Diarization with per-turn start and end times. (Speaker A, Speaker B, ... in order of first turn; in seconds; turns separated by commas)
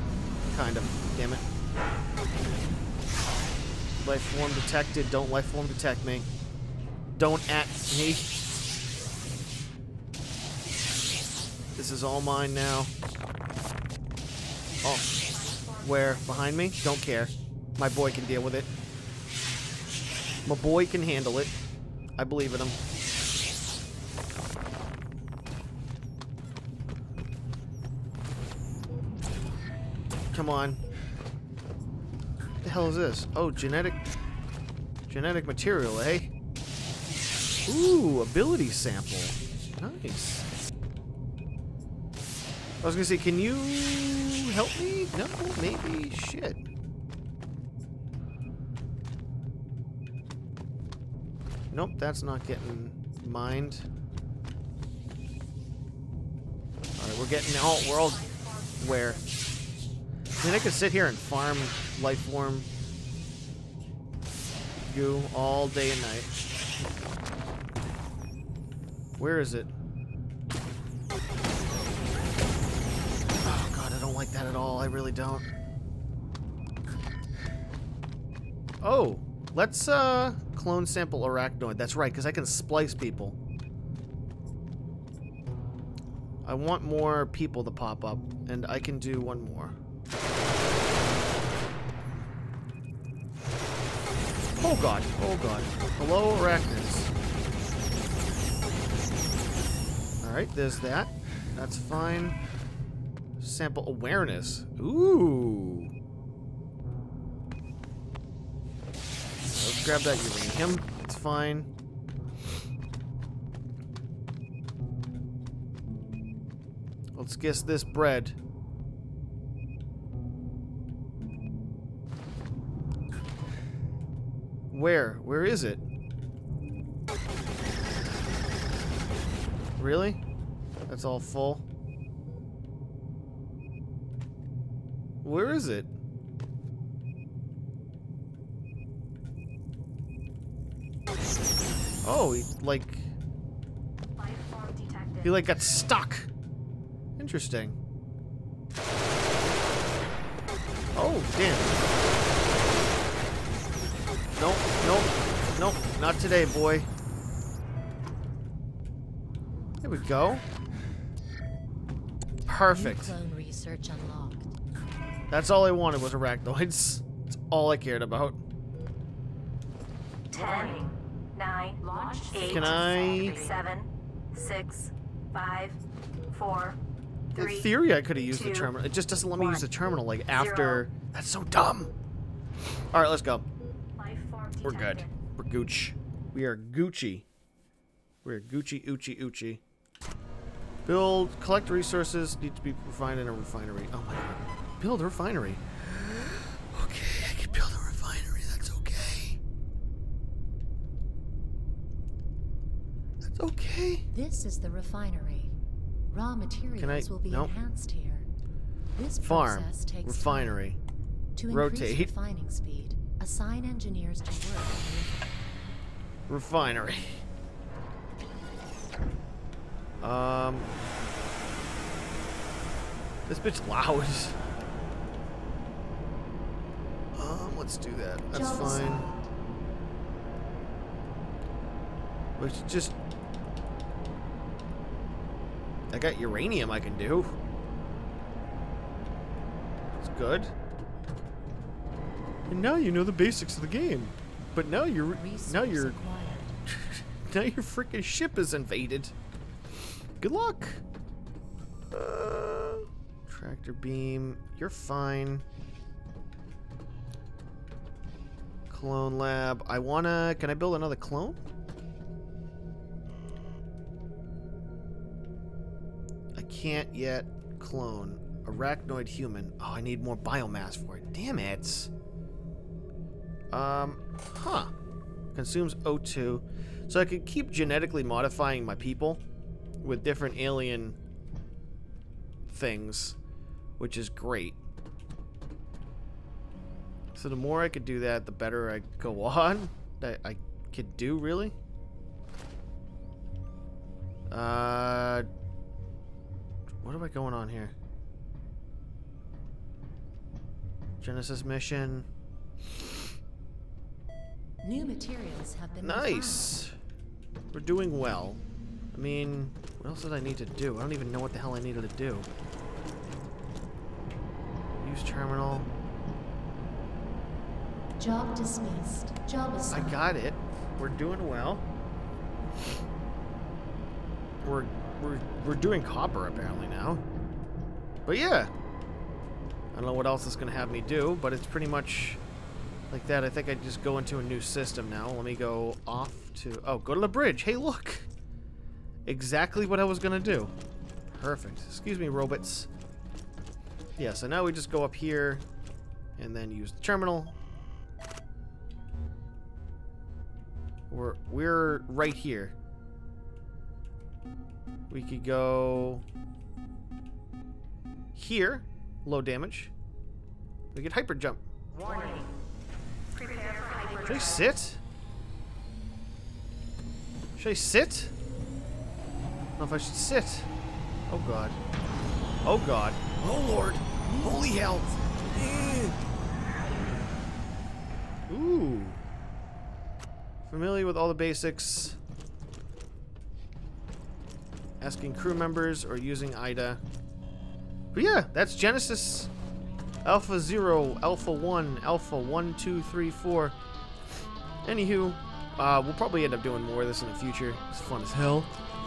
Speaker A: 0.5-1.4, Speaker A: 4.0-6.3, Speaker A: 7.2-8.3, Speaker A: 11.7-12.9, Speaker A: 14.8-15.1, Speaker B: 15.1-16.7, Speaker A: 15.8-18.7, Speaker A: 20.4-21.5, Speaker A: 22.2-22.8, Speaker A: 30.3-30.8, Speaker A: 32.6-34.0, Speaker A: 35.1-36.3, Speaker A: 37.7-40.5, Speaker A: 42.8-46.6, Speaker A: 51.7-53.9, Speaker A: 57.0-58.2, Speaker B: 57.9-59.3, Speaker A: 58.8-59.2, Speaker A: 60.4-62.7, Speaker A: 64.9-66.3, Speaker A: 69.2-69.7, Speaker A: 73.4-75.5, Speaker A: 78.8-83.4, Speaker A: 86.4-89.8, Speaker A: 94.6-97.1, Speaker A: 100.2-102.4, Speaker A: 103.4-105.9, Speaker A: 109.5-111.7, Speaker A: 117.1-118.3, Speaker A: 124.7-125.8, Speaker A: 129.8-130.2, Speaker A: 130.9-131.6, Speaker A: 135.2-135.9, Speaker A: 142.0-143.1, Speaker B: 144.2-145.5, Speaker A: 145.2-146.3, Speaker A: 147.2-147.8, Speaker A: 150.9-151.8, Speaker A: 154.3-156.9, Speaker A: 159.8-160.4, Speaker A: 162.4-163.2, Speaker C: 162.6-164.5, Speaker A: 165.3-168.4, Speaker B: 170.3-175.8, Speaker A: 172.4-173.4, Speaker B: 176.3-176.8, Speaker B: 177.3-177.7, Speaker A: 177.3-181.9, Speaker B: 178.3-178.7, Speaker B: 179.3-179.6, Speaker B: 180.3-180.8, Speaker A: 182.9-183.4, Speaker B: 184.0-185.1, Speaker A: 184.6-187.2, Speaker A: 188.2-189.6, Speaker A: 190.8-199.4, Speaker A: 203.2-204.1, Speaker C: 204.1-205.6, Speaker C: 206.1-208.3, Speaker A: 206.8-207.5, Speaker C: 208.9-210.6, Speaker A: 209.2-210.8, Speaker C: 211.3-215.3, Speaker A: 211.5-212.1, Speaker A: 216.3-217.2, Speaker A: 220.0-220.7, Speaker A: 223.3-224.4, Speaker A: 227.1-229.1, Speaker C: 228.3-229.2, Speaker A: 232.4-232.9, Speaker A: 235.9-237.3, Speaker A: 240.0-240.5, Speaker A: 242.5-246.0, Speaker C: 245.1-246.6, Speaker A: 246.7-249.1, Speaker A: 250.2-250.8, Speaker A: 251.9-255.4, Speaker A: 258.7-261.4, Speaker A: 266.3-271.9, Speaker A: 273.5-274.7, Speaker A: 275.3-279.2, Speaker A: 279.8-281.0, Speaker A: 282.5-283.2, Speaker A: 283.8-284.6, Speaker A: 287.1-291.5, Speaker A: 294.3-295.3, Speaker A: 296.8-297.7, Speaker A: 301.0-302.1, Speaker C: 304.6-306.6, Speaker A: 305.8-306.7, Speaker A: 307.5-308.4, Speaker A: 308.9-312.3, Speaker A: 314.8-315.7, Speaker C: 318.0-320.0, Speaker A: 319.7-321.6, Speaker A: 324.4-327.0, Speaker A: 328.1-328.5, Speaker A: 329.7-332.2, Speaker A: 332.9-338.1, Speaker A: 339.0-340.5, Speaker A: 341.1-342.7, Speaker A: 344.0-345.4, Speaker A: 346.2-347.3, Speaker A: 350.9-352.5, Speaker A: 354.9-356.0, Speaker A: 358.1-359.7, Speaker A: 360.7-361.4, Speaker B: 361.7-362.3, Speaker B: 363.1-364.5, Speaker A: 364.0-364.8, Speaker A: 367.4-368.1, Speaker A: 369.6-370.5, Speaker A: 371.1-371.6, Speaker A: 372.4-376.0, Speaker A: 378.3-379.0, Speaker A: 380.4-382.0, Speaker A: 384.8-386.8, Speaker A: 387.9-389.3, Speaker A: 390.0-393.6, Speaker A: 394.6-398.5